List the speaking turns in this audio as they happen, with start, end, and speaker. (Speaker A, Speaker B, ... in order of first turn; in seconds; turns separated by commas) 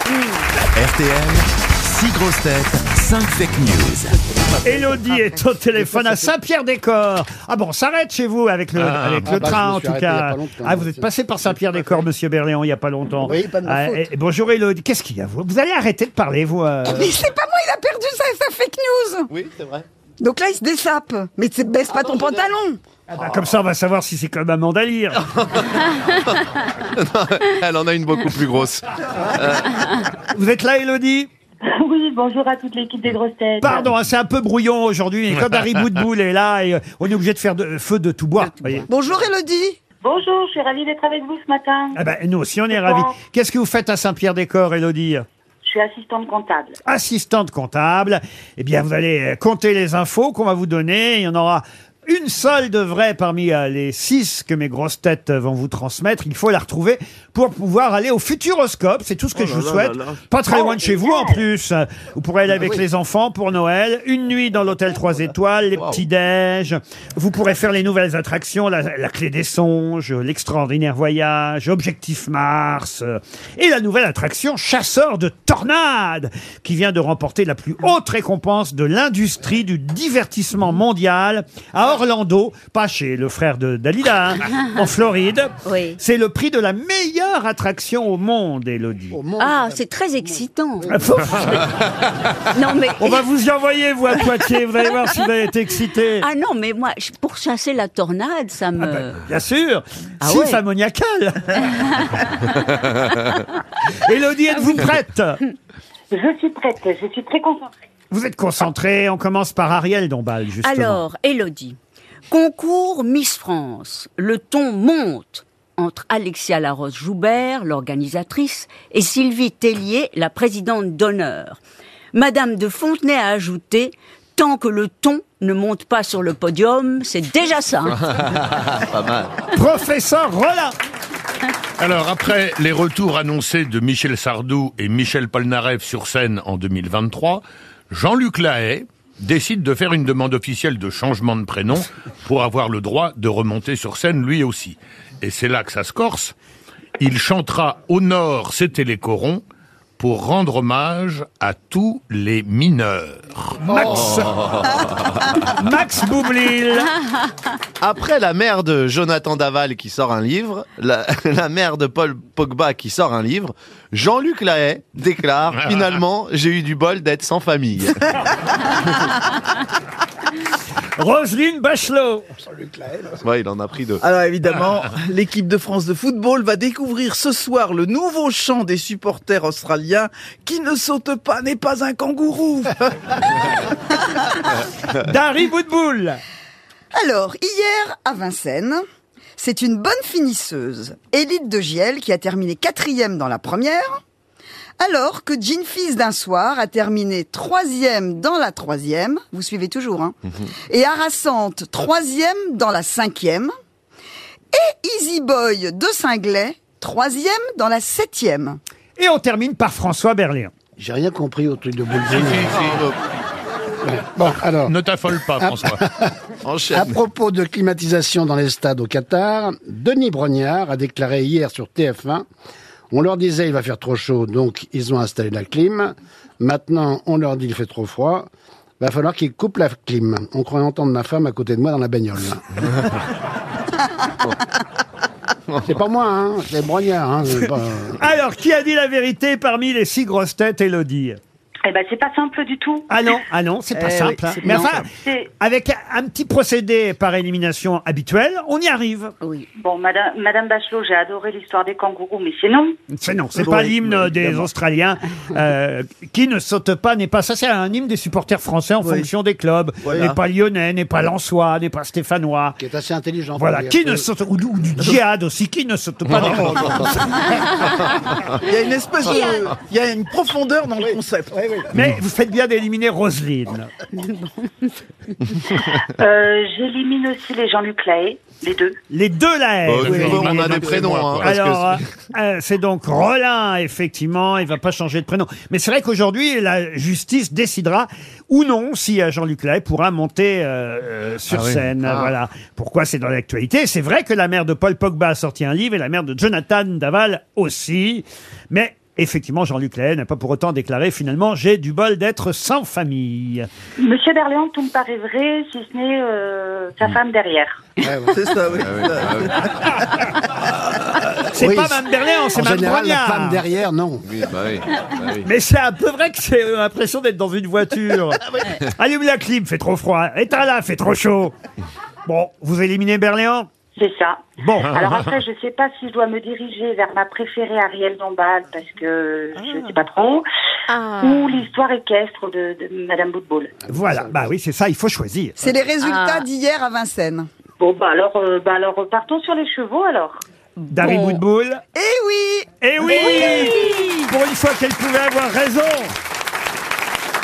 Speaker A: 0.8-4.2, Speaker B: 4.6-17.1, Speaker C: 8.8-9.3, Speaker D: 9.2-11.1, Speaker D: 13.2-14.1, Speaker E: 16.9-19.3, Speaker F: 19.3-19.9, Speaker E: 20.2-22.8, Speaker B: 23.1-25.3, Speaker F: 25.2-26.3, Speaker F: 26.9-29.8, Speaker B: 30.3-31.3, Speaker G: 31.7-33.7, Speaker B: 33.6-38.9, Speaker H: 38.4-38.9, Speaker E: 38.9-39.8, Speaker G: 40.0-42.0, Speaker B: 42.0-45.2, Speaker G: 42.7-43.1, Speaker G: 45.7-46.8, Speaker B: 46.9-89.2, Speaker I: 59.4-60.2, Speaker G: 60.5-61.4, Speaker H: 85.6-86.0, Speaker D: 89.1-91.3, Speaker H: 89.4-90.9, Speaker B: 90.9-91.7, Speaker H: 92.5-93.3, Speaker B: 93.0-96.3, Speaker H: 96.2-99.2, Speaker B: 98.8-101.7, Speaker H: 100.2-100.6, Speaker H: 101.7-102.2, Speaker B: 104.0-105.4, Speaker G: 106.1-107.7, Speaker B: 108.1-111.0, Speaker H: 110.6-111.8, Speaker H: 112.3-121.6, Speaker H: 122.1-128.0, Speaker F: 128.1-129.3, Speaker B: 129.5-130.8, Speaker C: 131.8-146.3, Speaker C: 147.0-149.4, Speaker C: 150.0-153.6, Speaker B: 153.7-154.3, Speaker F: 153.9-155.3, Speaker B: 155.4-156.9, Speaker F: 157.8-168.0, Speaker C: 165.6-165.9, Speaker B: 171.0-172.3, Speaker D: 172.4-173.2, Speaker F: 173.2-174.0, Speaker I: 174.0-182.8, Speaker B: 185.0-186.2, Speaker E: 186.9-188.8, Speaker E: 189.4-194.0, Speaker E: 194.8-200.1, Speaker E: 200.7-203.5, Speaker E: 204.5-208.6, Speaker B: 209.0-210.5, Speaker D: 210.8-212.8, Speaker C: 212.1-212.8, Speaker F: 212.5-213.0, Speaker D: 213.8-214.8, Speaker C: 214.6-215.8, Speaker D: 215.3-216.1, Speaker F: 216.4-217.0, Speaker D: 216.7-222.3, Speaker D: 222.9-232.6, Speaker D: 235.6-238.0, Speaker B: 238.0-241.2, Speaker G: 241.6-242.9, Speaker B: 242.9-244.9, Speaker I: 243.8-244.7, Speaker H: 244.3-244.7, Speaker G: 245.0-245.3, Speaker B: 245.4-249.1, Speaker H: 249.2-249.5, Speaker G: 249.6-252.8, Speaker B: 252.9-262.6, Speaker I: 253.4-254.5, Speaker I: 258.8-259.1, Speaker D: 259.9-260.1, Speaker D: 262.6-264.1, Speaker B: 263.4-267.4, Speaker I: 268.4-271.3, Speaker H: 269.1-269.5, Speaker D: 270.8-271.7, Speaker B: 271.7-273.7, Speaker H: 273.9-274.7, Speaker G: 276.0-278.8, Speaker B: 278.9-303.5, Speaker F: 279.7-281.8, Speaker C: 279.8-281.3, Speaker C: 291.3-292.1, Speaker G: 303.8-307.6, Speaker D: 307.8-308.2, Speaker I: 308.1-310.1, Speaker F: 308.6-309.4, Speaker B: 311.3-313.4, Speaker D: 311.3-311.8, Speaker D: 312.3-314.1, Speaker F: 314.1-315.2, Speaker B: 315.2-321.3, Speaker B: 322.1-323.5, Speaker G: 323.8-330.2, Speaker B: 324.4-324.8, Speaker C: 324.7-325.1, Speaker H: 330.7-331.4, Speaker G: 331.0-333.6, Speaker D: 333.7-334.3, Speaker B: 333.7-335.4, Speaker E: 335.4-337.3, Speaker H: 335.8-336.3, Speaker G: 337.6-340.2, Speaker H: 340.6-341.2, Speaker B: 340.7-341.6, Speaker E: 341.8-342.5, Speaker B: 342.6-345.9, Speaker H: 342.8-344.1